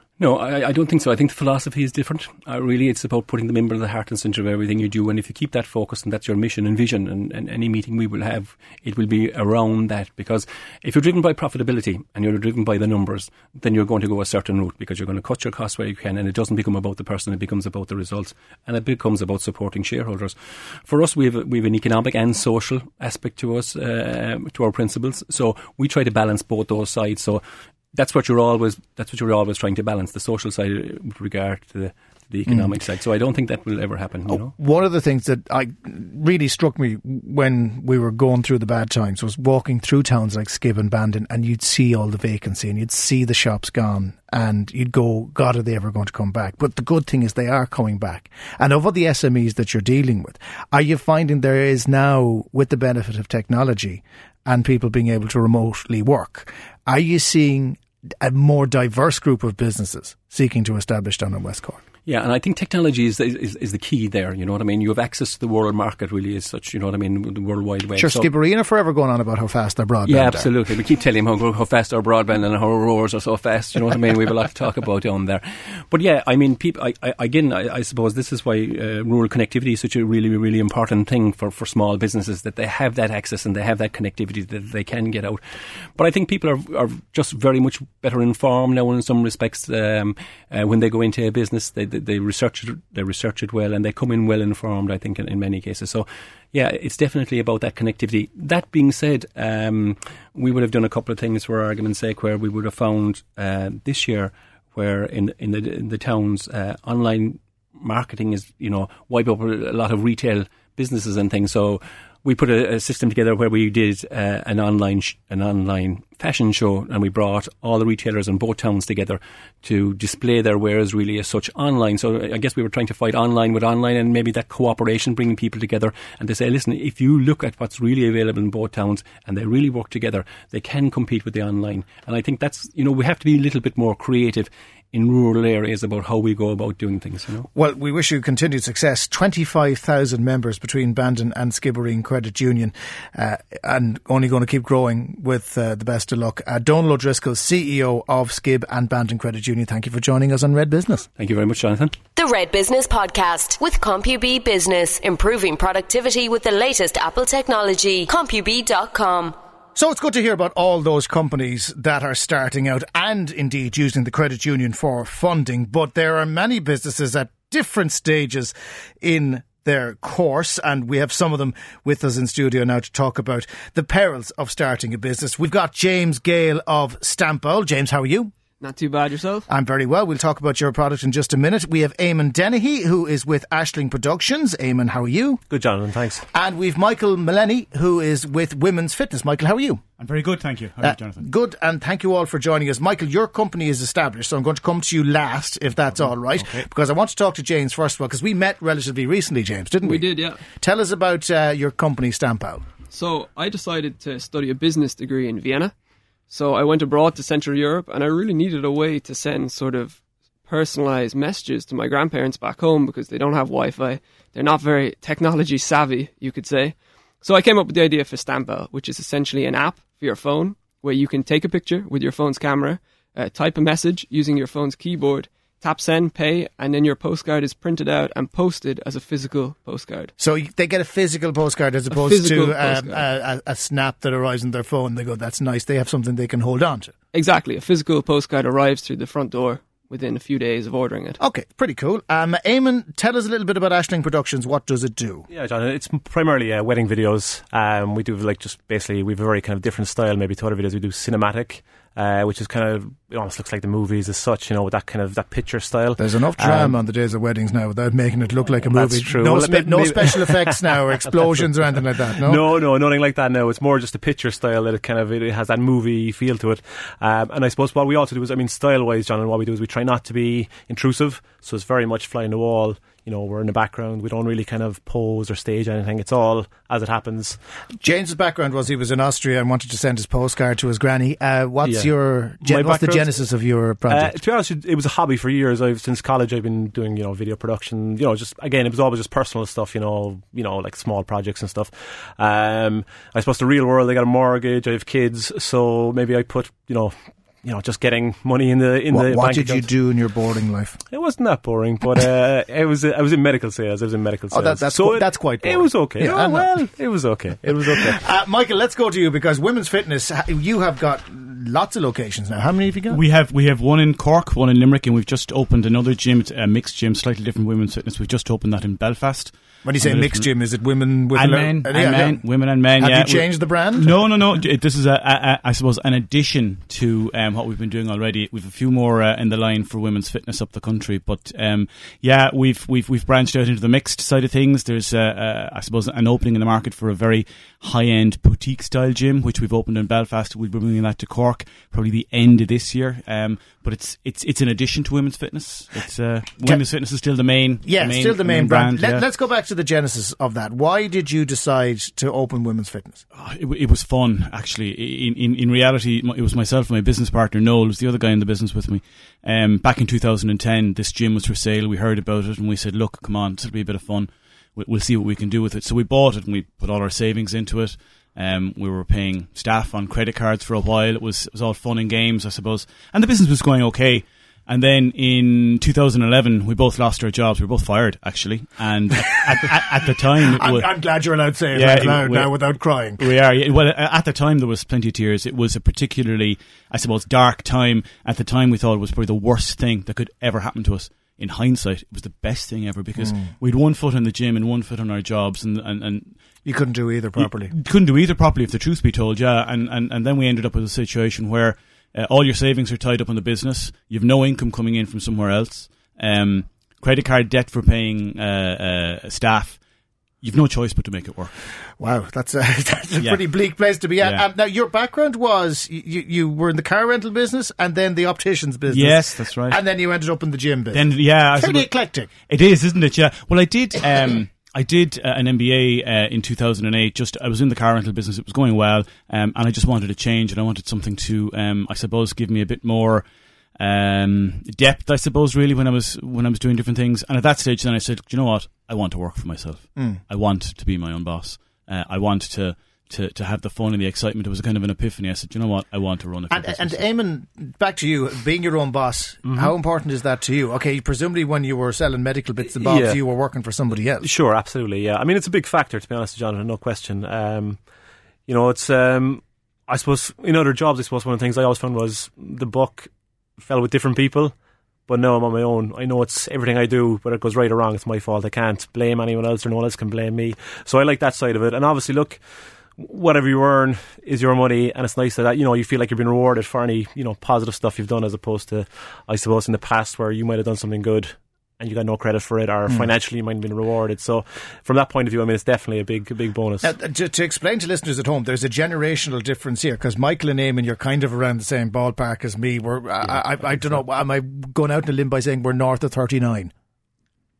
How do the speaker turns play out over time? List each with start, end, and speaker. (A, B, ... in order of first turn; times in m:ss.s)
0:00.2-0:34.5 A
0:34.3-1:01.8 B
1:02.1-1:08.3 A
1:08.0-1:10.5 B
1:10.0-2:17.5 A
2:17.5-2:31.1 B
2:31.2-2:32.0 A
2:32.2-2:39.3 C
2:39.8-2:58.3 B
2:58.6-2:59.4 D
2:59.5-3:05.4 B
3:05.5-3:06.2 E
3:06.3-3:09.8 B
3:10.0-3:11.2 F
3:10.8-3:22.6 B
3:16.0-3:16.7 F
3:19.8-3:20.4 D
3:22.9-3:25.7 D
3:26.3-3:50.1 D
3:50.2-3:56.9 B
3:51.9-3:53.0 D
3:57.1-4:01.2 D
4:01.2-4:05.3 B
4:05.3-4:16.8 E
4:16.0-4:22.4 B
4:18.6-4:37.4 E
4:37.8-4:44.1 B
4:41.6-4:43.2 E
4:43.9-4:59.7 E
4:58.9-5:00.8 B
5:00.9-5:08.0 E
5:04.3-5:06.5 B
5:07.9-5:13.0 B
5:12.9-5:20.3 F
5:19.6-5:23.9 B
5:21.1-5:49.0 F
5:47.6-5:53.0 B
5:53.1-6:20.7 F
6:20.4-6:23.0 B
6:21.5-6:36.2 F
6:33.0-6:33.3 B
6:36.4-6:37.5 B
6:37.2-6:49.6 F
6:50.2-6:51.3 F
6:51.8-7:02.1 B
6:58.7-6:59.6 F
7:00.7-7:01.7 F
7:02.3-7:13.0 F
7:13.6-7:26.8 F
7:26.3-7:34.1 B
7:29.2-7:29.5 E
7:32.5-7:33.0 E
7:34.0-7:37.6 E
7:38.2-7:44.4 E
7:44.9-8:06.7 E
8:06.6-8:16.5 B
8:13.0-8:13.7 E